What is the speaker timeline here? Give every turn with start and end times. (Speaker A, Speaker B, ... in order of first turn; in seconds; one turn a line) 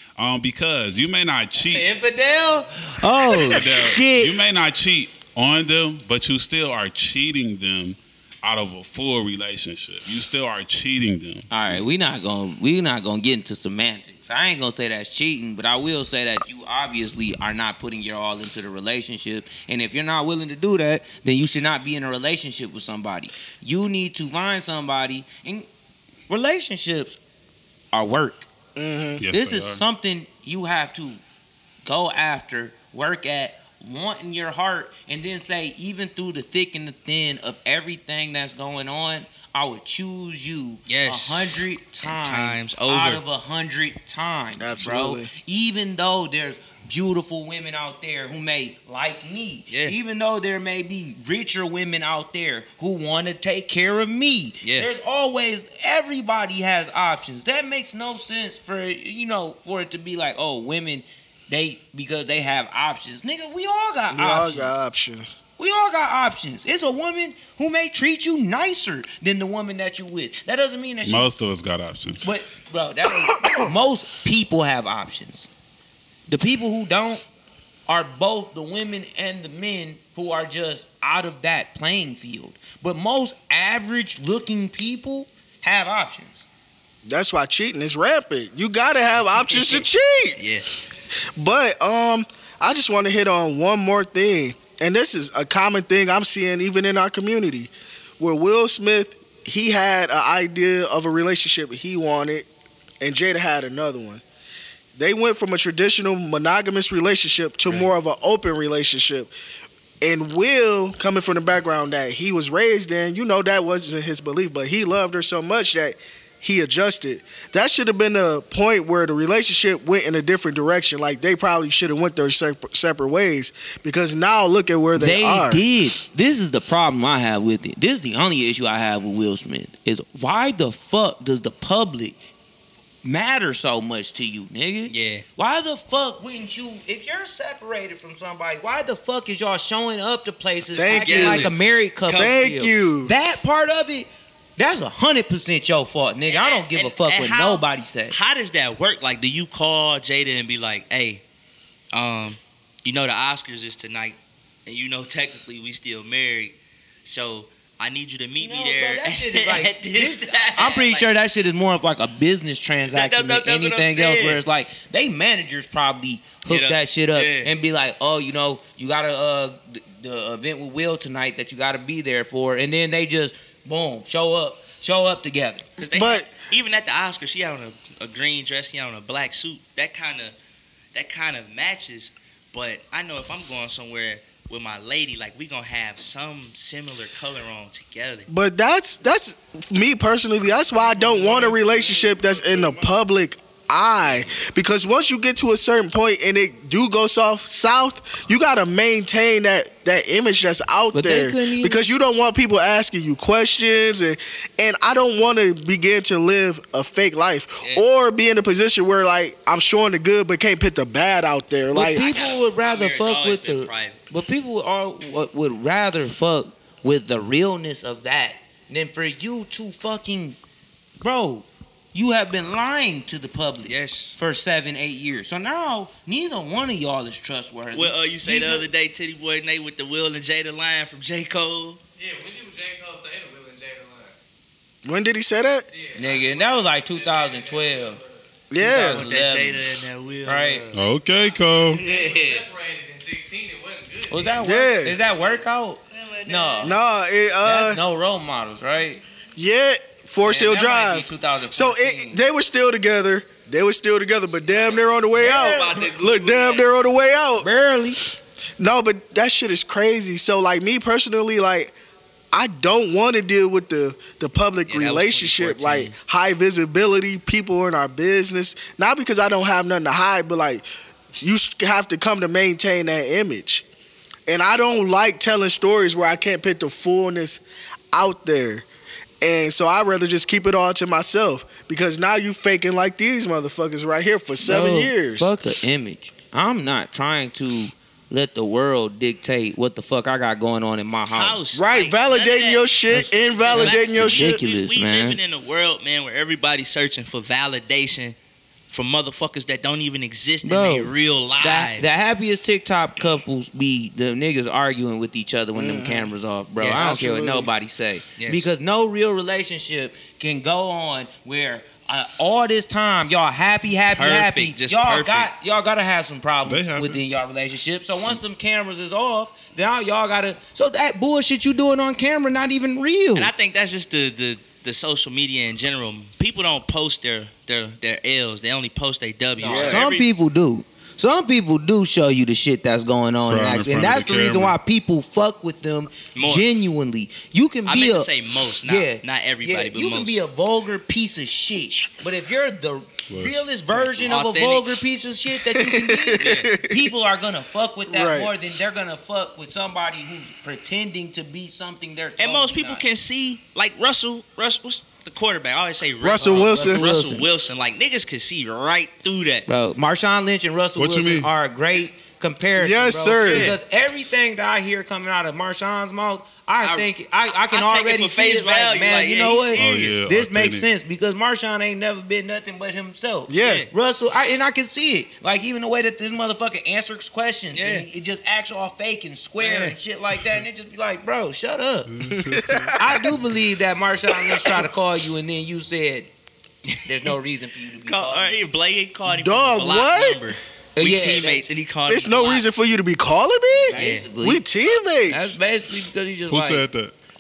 Speaker A: 0.2-1.9
Speaker B: 1.6-4.4
Speaker A: 3.2-11.8
Speaker B: 11.5-25.7
Speaker B: 26.3-27.2
Speaker B: 27.9-28.5
Speaker C: 28.8-29.2
Speaker A: 29.2-29.8
Speaker B: 29.3-31.2
Speaker B: 31.8-64.8
Speaker D: 40.9-43.2
Speaker C: 44.6-45.3
Speaker D: 49.7-50.0
Speaker D: 54.6-54.9
Speaker C: 64.1-65.4
Speaker B: 65.6-71.3
Speaker A: 71.0-72.2
Speaker B: 72.2-75.5
Speaker B: 76.3-77.2
Speaker B: 77.9-86.5
Speaker C: 87.0-90.4
Speaker D: 89.3-90.8
Speaker C: 91.4-102.5
Speaker C: 103.0-104.2
Speaker C: 105.0-109.3
Speaker C: 110.0-125.6
Speaker B: 124.9-132.2
Speaker B: 133.0-148.2
Speaker D: 134.9-135.2
Speaker C: 140.7-141.5
Speaker D: 140.9-141.5
Speaker D: 142.1-142.3
Speaker C: 142.1-143.1
Speaker D: 146.3-151.2
Speaker D: 151.9-161.1
Speaker B: 158.4-175.7
Speaker D: 162.9-164.4
Speaker D: 166.4-167.5
Speaker D: 175.8-180.3
Speaker C: 175.9-176.3
Speaker D: 180.9-188.3
Speaker C: 188.3-212.0
Speaker A: 190.7-192.9
Speaker B: 200.9-201.8
Speaker B: 211.7-220.4
Speaker D: 211.9-214.0
Speaker B: 221.0-228.7
Speaker D: 223.7-224.1
Speaker D: 227.7-231.8
Speaker E: 232.0-234.1
Speaker C: 234.8-235.7
Speaker E: 235.7-238.2
Speaker B: 235.9-238.0
Speaker C: 238.5-239.0
Speaker B: 238.6-239.7
Speaker D: 238.7-240.8
Speaker B: 240.2-240.6
Speaker A: 240.7-241.8
Speaker E: 241.1-244.5
Speaker D: 241.7-242.4
Speaker B: 244.1-246.8
Speaker C: 244.4-245.0
Speaker D: 245.9-246.8
Speaker C: 246.6-247.8
Speaker B: 247.4-249.0
Speaker C: 249.3-257.5
Speaker B: 250.2-252.2
Speaker D: 254.5-256.6
Speaker B: 255.2-255.8
Speaker B: 257.4-258.0
Speaker C: 258.6-261.7
Speaker C: 262.3-273.6
Speaker D: 264.7-265.9
Speaker C: 274.3-277.4
Speaker C: 277.9-278.6
Speaker C: 279.2-285.3
Speaker B: 284.4-291.4
Speaker D: 291.1-292.7
Speaker C: 291.5-294.4
Speaker B: 292.9-295.2
Speaker D: 293.5-298.1
Speaker D: 298.7-301.9
Speaker B: 300.4-323.3
Speaker C: 305.6-306.1
Speaker D: 306.6-307.0
Speaker C: 306.7-307.5
Speaker D: 308.2-308.5
Speaker D: 313.9-315.3
Speaker A: 316.4-317.0
Speaker D: 323.1-330.1
Speaker B: 329.4-338.1
Speaker C: 329.4-329.8
Speaker A: 333.3-334.5
Speaker D: 336.1-336.4
Speaker D: 337.6-340.2
Speaker B: 338.6-352.8
Speaker A: 343.1-343.4
Speaker D: 344.0-344.8
Speaker C: 345.5-346.9
Speaker D: 346.1-346.5
Speaker C: 347.9-348.3
Speaker D: 352.2-359.4
Speaker C: 356.0-356.8
Speaker B: 356.2-357.3
Speaker B: 359.5-381.9
Speaker A: 360.8-361.3
Speaker C: 362.6-363.5
Speaker D: 363.2-363.6
Speaker D: 366.6-370.0
Speaker A: 369.5-370.7
Speaker C: 373.3-373.6
Speaker D: 373.4-373.7
Speaker D: 377.5-377.9
Speaker D: 379.4-379.8
Speaker A: 381.9-382.8
Speaker C: 382.1-383.1
Speaker B: 382.8-386.1
Speaker C: 384.1-384.6
Speaker D: 386.6-387.1
Speaker B: 386.8-388.4
Speaker D: 387.9-392.4
Speaker C: 389.1-390.2
Speaker B: 390.8-391.4
Speaker C: 391.9-395.4
Speaker B: 393.5-394.4
Speaker D: 393.7-394.1
Speaker B: 395.1-396.6
Speaker A: 396.3-396.9